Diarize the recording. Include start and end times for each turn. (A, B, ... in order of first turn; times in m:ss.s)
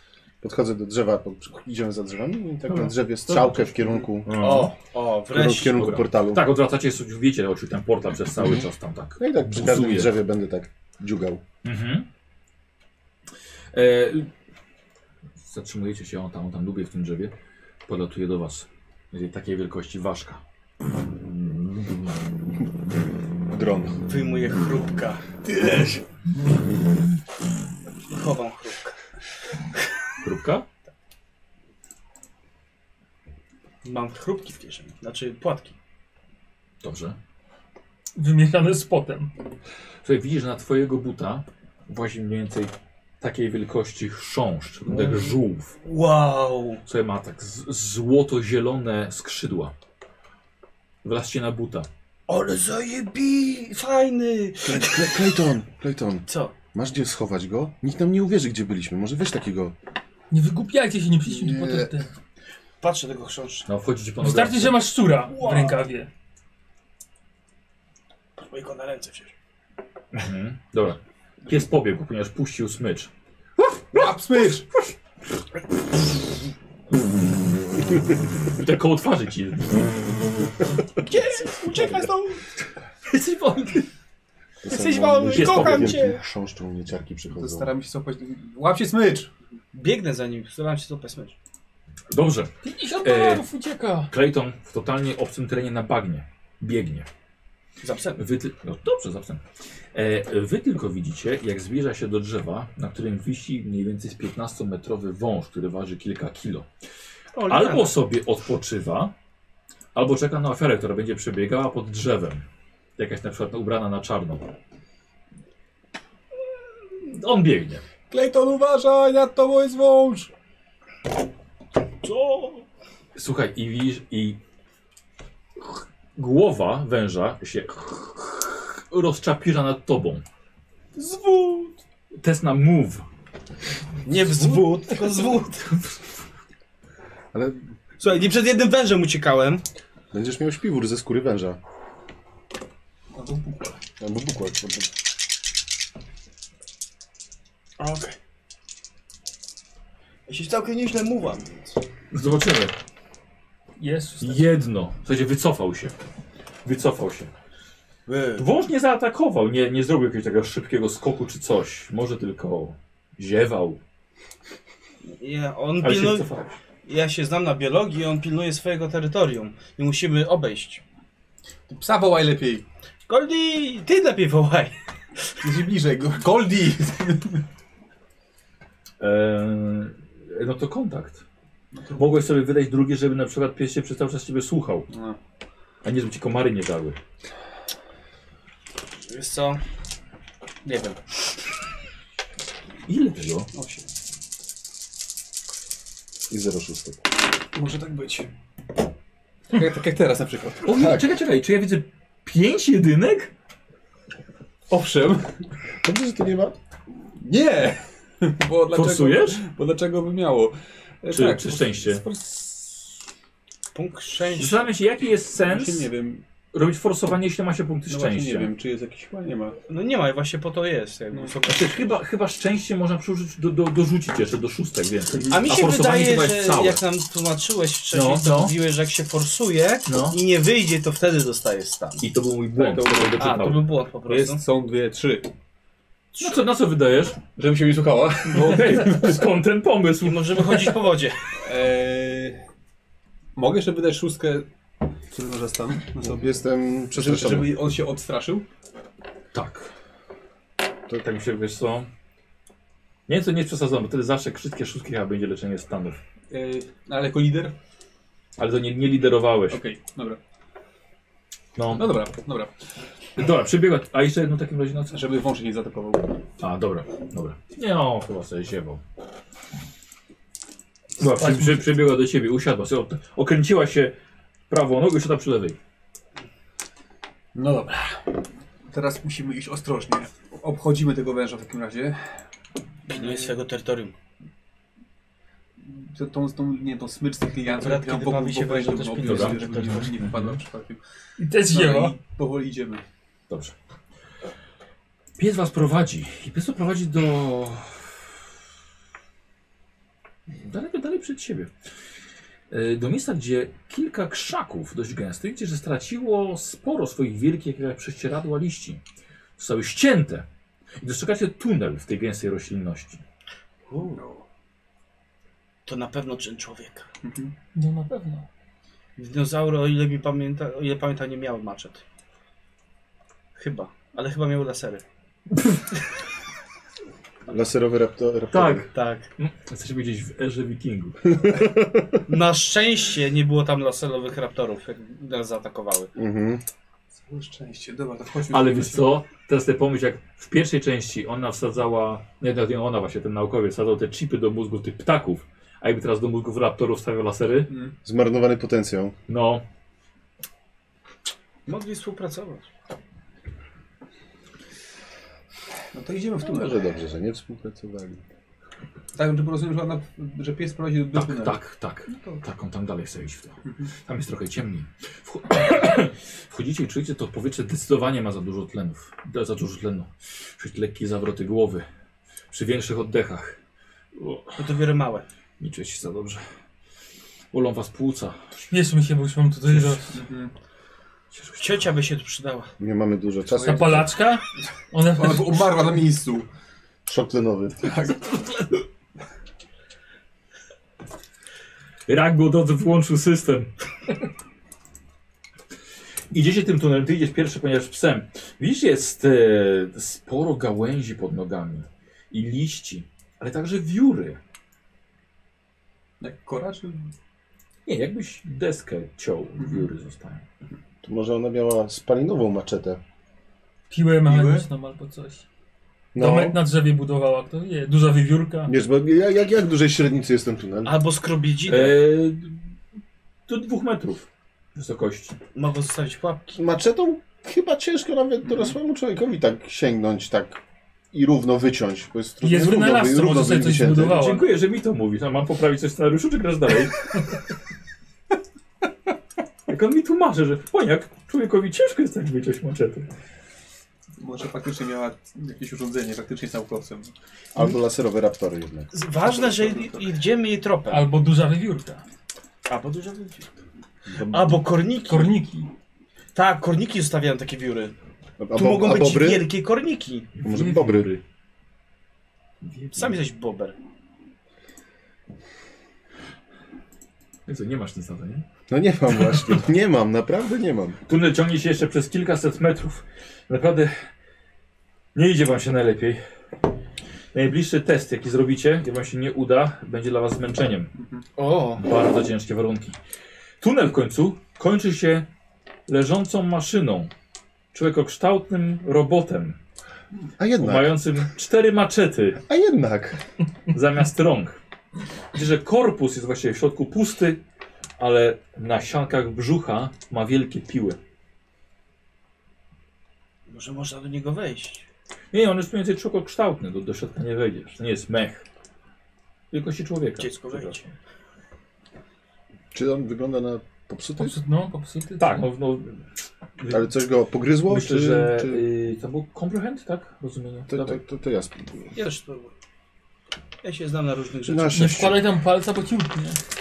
0:00.4-0:04.4 A
0:02.7-0:04.7 B
0:04.4-0:05.8 C
0:05.3-0:06.5 A
0:05.7-0:10.1 B
0:09.2-0:11.4 A
0:11.6-0:12.1 B
0:13.7-0:14.3 B
0:15.4-0:17.3 B
0:17.9-0:22.2 B
0:23.5-0:24.0 A
0:24.1-0:25.5 C
0:28.1-0:29.0 C
0:30.2-0:30.6 B
0:33.8-0:35.8 C
0:36.8-0:37.2 B
0:38.2-0:39.3 D
0:40.0-0:45.7 B
0:44.9-0:46.8 C
0:46.8-0:49.7 B
0:51.0-0:51.9 B
0:52.3-0:55.4 C
0:54.6-0:59.7 A
0:56.3-0:56.6 C
1:00.3-1:02.1 D
1:01.4-1:01.9 A
1:02.8-1:03.7 C
1:03.7-1:04.8 B
1:04.2-1:06.1 D
1:05.3-1:05.8 C
1:08.4-1:09.3 C
1:10.1-1:13.1 B
1:13.9-1:14.7 E
1:18.5-1:20.0 B
1:21.0-1:22.4 C
1:21.7-1:22.0 A
1:23.1-1:23.9 B
1:24.6-1:27.7 A
1:24.7-1:26.2 C
1:25.3-1:26.1 B
1:27.3-1:29.3 E
1:29.7-1:31.4 C
1:32.1-1:33.5 B
1:32.6-1:34.1 D
1:34.1-1:37.1 B
1:37.8-1:38.2 C
1:38.2-1:39.4 B
1:39.9-1:46.7 B
1:47.3-1:47.9 C
1:47.5-1:49.1 B
1:49.9-1:52.4 B
1:53.0-1:54.5 B
1:57.0-1:57.8 B
1:58.1-2:00.3 E
2:02.0-2:02.6 C
2:03.2-2:04.4 B
2:05.6-2:10.2 B
2:11.0-2:11.8 C
2:12.2-2:13.0 B
2:14.1-2:15.7 C
2:14.1-2:16.0 B
2:17.3-2:17.6 A
2:18.0-2:19.6 C
2:20.1-2:21.6 A
2:23.1-2:23.8 E
2:24.0-2:24.9 A
2:27.8-2:28.2 C
2:30.3-2:31.8 C
2:32.1-2:32.8 B
2:33.8-2:34.5 D
2:34.2-2:35.9 B
2:36.6-2:37.3 B
2:38.1-2:38.5 C
2:38.4-2:43.8 B
2:45.1-2:46.3 C
2:45.8-2:46.6 B
2:46.8-2:50.8 C
2:51.7-2:52.6 E
2:53.1-2:54.8 C
2:55.4-2:57.4 E
2:59.0-3:01.2 B
3:01.7-3:02.1 E
3:02.0-3:04.9 B
3:04.9-3:05.2 E
3:05.8-3:07.0 B
3:09.1-3:09.6 C
3:10.6-3:11.0 C
3:12.9-3:13.5 B
3:13.5-3:13.8 E
3:16.3-3:17.0 A
3:17.6-3:18.3 E
3:19.5-3:20.7 E
3:20.6-3:23.3 B
3:20.7-3:21.0 A
3:24.7-3:25.4 E
3:25.8-3:26.6 A
3:27.2-3:32.8 E
3:28.7-3:29.4 B
3:31.1-3:32.0 B
3:33.7-3:34.7 C
3:34.4-3:35.9 B
3:35.4-3:36.2 E
3:36.5-3:38.5 B
3:37.9-3:39.6 E
3:39.7-3:42.0 C
3:41.5-3:46.8 B
3:45.1-3:45.6 E
3:45.3-3:52.0 C
3:47.9-3:48.6 B
3:49.9-3:50.2 B
3:52.0-3:53.6 B
3:52.6-3:53.3 E
3:53.2-3:54.4 C
3:54.1-3:55.3 E
3:56.2-3:57.2 B
3:57.4-3:59.2 E
3:58.3-4:00.8 B
4:00.0-4:01.3 C
4:01.4-4:02.4 E
4:03.4-4:04.5 E
4:05.1-4:06.3 E
4:06.0-4:07.6 A
4:06.9-4:08.4 E
4:09.3-4:09.7 B
4:10.9-4:11.9 B
4:13.1-4:16.0 B
4:16.3-4:17.5 E
4:18.4-4:19.6 B
4:19.5-4:20.2 E
4:21.6-4:21.9 B
4:21.7-4:22.5 E
4:23.2-4:25.0 B
4:24.9-4:26.2 E
4:26.4-4:28.8 B
4:31.0-4:34.0 B
4:31.0-4:31.6 D
4:34.5-4:35.6 B
4:37.4-4:38.1 E
4:38.7-4:42.1 E
4:42.9-4:43.4 E
4:42.9-4:43.9 C
4:45.6-4:50.8 E
4:47.5-4:50.0 C
4:49.0-4:50.4 B
4:51.2-4:52.0 D
4:51.5-4:52.8 E
4:53.3-4:53.5 B
4:55.2-4:58.0 B
5:00.4-5:01.5 B
5:02.5-5:08.8 B
5:09.4-5:10.3 B
5:10.8-5:13.0 B
5:13.7-5:14.0 C
5:13.9-5:14.2 E
5:15.7-5:16.9 C
5:17.0-5:17.4 E
5:17.6-5:18.3 D
5:19.0-5:21.8 C
5:23.4-5:24.8 C
5:27.3-5:28.7 A
5:28.3-5:31.3 B
5:28.7-5:29.1 C
5:31.1-5:32.0 A
5:32.1-5:35.9 C
5:36.0-5:36.4 A
5:37.0-5:38.9 E
5:38.3-5:47.5 B
5:47.5-5:47.8 E
5:47.8-5:49.0 A
5:49.1-5:49.4 B
5:51.5-5:52.5 C
5:55.7-5:56.7 E
5:56.2-5:58.0 A
5:59.0-6:01.4 E
6:00.9-6:11.7 B
6:03.4-6:03.7 E
6:12.3-6:13.4 B
6:14.0-6:14.4 B
6:14.4-6:15.0 C
6:15.4-6:16.3 B
6:17.3-6:18.5 B
6:18.5-6:20.0 D
6:19.5-6:19.8 B
6:19.9-6:20.3 E
6:21.1-6:21.6 B
6:21.4-6:22.5 C
6:22.6-6:23.9 A
6:23.4-6:25.5 D
6:24.9-6:26.3 E
6:26.9-6:27.8 A
6:27.6-6:28.2 E
6:31.9-6:33.5 B
6:36.1-6:44.2 B
6:46.0-6:46.9 E
6:47.7-6:50.2 B
6:50.8-6:52.8 A
6:53.7-6:55.2 D
6:54.1-6:54.5 E
6:56.0-6:56.4 A
6:56.0-6:58.5 D
6:58.5-7:00.8 A
7:00.7-7:01.8 C
7:01.5-7:02.4 B
7:03.3-7:05.2 B
7:05.4-7:06.4 C
7:06.4-7:10.4 A
7:10.9-7:14.0 A
7:12.2-7:14.3 D
7:13.9-7:17.0 B
7:19.5-7:22.9 B
7:24.0-7:26.9 E
7:27.4-7:28.7 A
7:28.7-7:30.9 C
7:29.0-7:29.9 E
7:30.7-7:31.8 D
7:32.5-7:33.3 C
7:33.9-7:34.4 A
7:34.1-7:35.2 C
7:34.8-7:35.5 D
7:36.1-7:37.8 C
7:38.2-7:39.3 A
7:38.3-7:40.1 C
7:40.2-7:41.0 B
7:40.2-7:40.9 A
7:42.4-7:43.0 B
7:42.8-7:43.6 C
7:47.3-7:48.2 B
7:48.5-7:50.8 A
7:50.9-7:53.9 B
7:55.0-7:56.0 B
7:57.1-8:00.7 B
8:00.8-8:01.0 E
8:01.2-8:01.6 C
8:01.6-8:02.8 B
8:03.4-8:05.1 B
8:05.7-8:06.9 B
8:07.5-8:09.4 B
8:10.2-8:10.8 A
8:10.4-8:12.2 B
8:12.3-8:13.0 A
8:13.5-8:14.4 B
8:15.1-8:17.2 B
8:17.8-8:20.8 B
8:23.3-8:24.6 C
8:25.1-8:28.2 B
8:29.3-8:30.6 B
8:30.0-8:30.7 C
8:32.5-8:34.2 A
8:34.0-8:35.3 D
8:35.0-8:35.8 B
8:36.4-8:36.7 B
8:36.5-8:38.4 A
8:37.5-8:40.8 B
8:40.5-8:41.8 A
8:41.8-8:42.3 C
8:43.4-8:44.9 C
8:44.3-8:45.1 A
8:44.5-8:46.2 D